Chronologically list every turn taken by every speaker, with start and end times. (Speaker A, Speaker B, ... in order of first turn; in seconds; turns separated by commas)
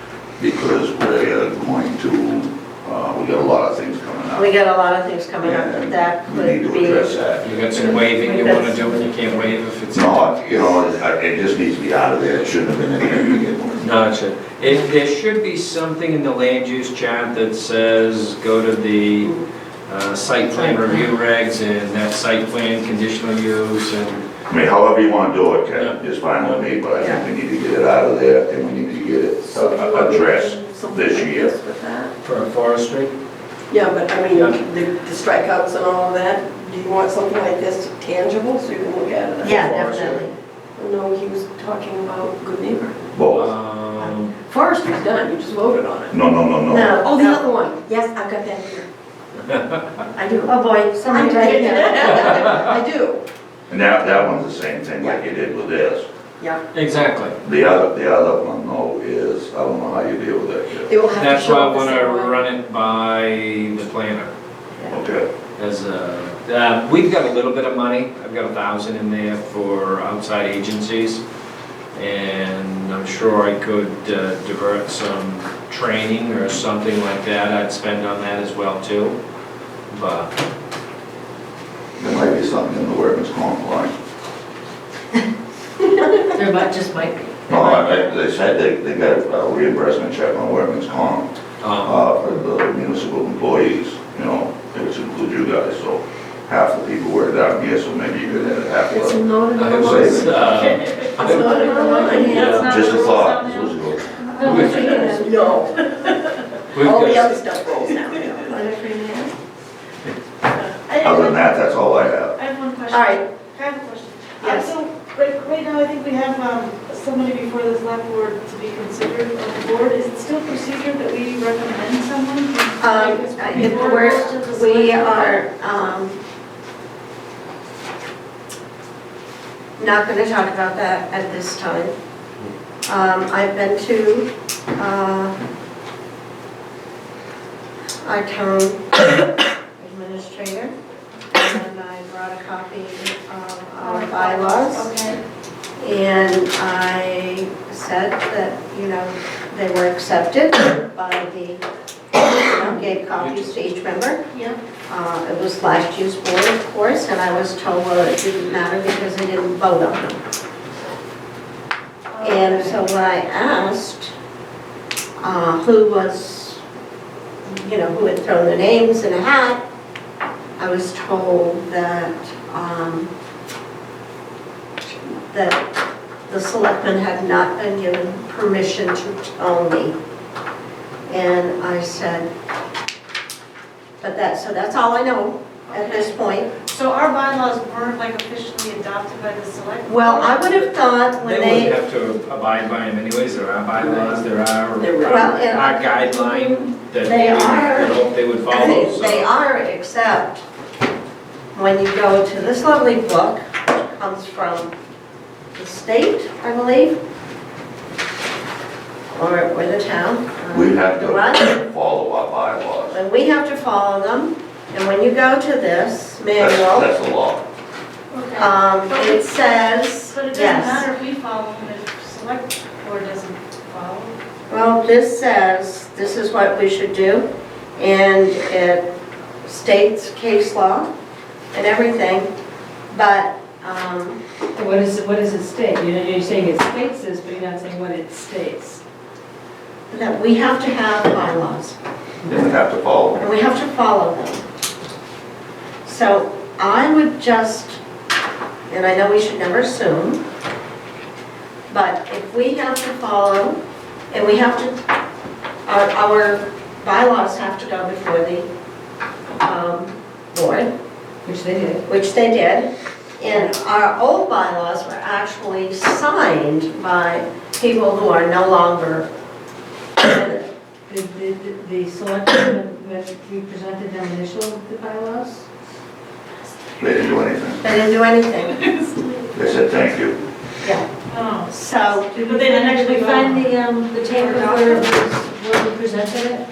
Speaker A: 0.4-4.5, Speaker B: 4.3-7.2, Speaker A: 5.4-7.5, Speaker C: 7.4-10.3, Speaker B: 7.7-8.7, Speaker D: 8.2-9.5, Speaker A: 9.9-13.9, Speaker C: 13.8-19.4, Speaker C: 19.9-24.2, Speaker A: 24.5-31.5, Speaker C: 25.7-26.6, Speaker E: 29.4-32.1, Speaker C: 32.2-33.1, Speaker E: 33.7-40.2, Speaker C: 34.3-34.6, Speaker B: 39.4-40.3, Speaker E: 40.8-43.1, Speaker A: 43.1-43.5, Speaker C: 43.3-44.3, Speaker E: 44.4-46.2, Speaker A: 46.1-47.0, Speaker B: 46.7-47.5, Speaker E: 47.0-48.9, Speaker C: 49.5-49.8, Speaker E: 50.1-50.5, Speaker B: 50.5-52.3, Speaker E: 51.0-53.2, Speaker C: 52.1-52.6, Speaker A: 53.7-56.1, Speaker C: 56.7-57.3, Speaker A: 57.4-60.9, Speaker E: 60.9-62.4, Speaker C: 61.1-64.3, Speaker A: 64.9-65.3, Speaker C: 65.6-71.2, Speaker C: 71.9-79.2, Speaker C: 79.9-80.3, Speaker A: 82.0-83.9, Speaker D: 86.4-87.0, Speaker A: 87.5-91.3, Speaker C: 91.6-92.0, Speaker A: 91.8-100.5, Speaker E: 98.9-100.6, Speaker C: 99.5-102.7, Speaker F: 100.6-101.2, Speaker E: 101.2-102.5, Speaker B: 101.2-102.6, Speaker F: 102.4-103.8, Speaker A: 102.5-104.8, Speaker B: 104.4-105.5, Speaker F: 104.4-104.8, Speaker C: 104.4-104.9, Speaker E: 104.4-108.6, Speaker C: 106.7-107.3, Speaker B: 108.4-109.3, Speaker F: 110.5-111.6, Speaker A: 111.0-112.3, Speaker F: 112.3-125.4, Speaker B: 112.9-113.2, Speaker E: 114.4-114.7, Speaker B: 114.4-114.7, Speaker B: 122.8-126.2, Speaker B: 129.8-131.9, Speaker B: 132.8-135.3, Speaker B: 138.0-139.0, Speaker B: 139.8-140.7, Speaker B: 141.3-144.9, Speaker F: 143.8-145.2, Speaker E: 144.2-145.0, Speaker B: 145.8-151.6, Speaker B: 152.1-154.2, Speaker C: 153.1-153.6, Speaker B: 154.9-160.2, Speaker F: 162.1-162.8, Speaker B: 162.2-164.1, Speaker B: 165.2-166.6, Speaker B: 167.4-169.6, Speaker B: 170.6-173.1, Speaker B: 174.8-175.6, Speaker B: 176.3-180.0, Speaker B: 181.1-182.3, Speaker B: 184.0-186.5, Speaker F: 185.7-190.7, Speaker B: 189.8-191.8, Speaker C: 191.2-199.3, Speaker E: 193.8-194.2, Speaker E: 194.8-195.5, Speaker B: 195.0-200.4, Speaker B: 201.5-204.7, Speaker B: 205.5-206.9, Speaker B: 209.1-211.6, Speaker A: 210.5-213.0, Speaker B: 212.9-216.9, Speaker A: 216.3-217.4, Speaker F: 218.1-219.3, Speaker B: 218.3-220.9, Speaker F: 220.1-224.1, Speaker B: 224.5-228.9, Speaker B: 229.4-230.9, Speaker B: 231.5-232.3, Speaker B: 232.9-234.2, Speaker D: 234.6-238.8, Speaker B: 239.9-241.8, Speaker A: 242.2-243.2, Speaker B: 243.2-244.4, Speaker B: 245.8-247.8, Speaker B: 248.7-250.2, Speaker B: 251.7-253.6, Speaker B: 254.1-254.8, Speaker B: 255.7-258.5, Speaker B: 259.4-260.7, Speaker D: 261.2-261.8, Speaker B: 261.9-269.1, Speaker B: 270.0-270.4, Speaker D: 270.9-275.4, Speaker A: 276.8-277.6, Speaker B: 277.6-278.7, Speaker A: 279.3-280.2, Speaker B: 280.6-280.9, Speaker F: 281.1-281.5, Speaker B: 281.5-282.1, Speaker D: 282.1-286.4, Speaker F: 282.1-283.6, Speaker F: 284.1-284.8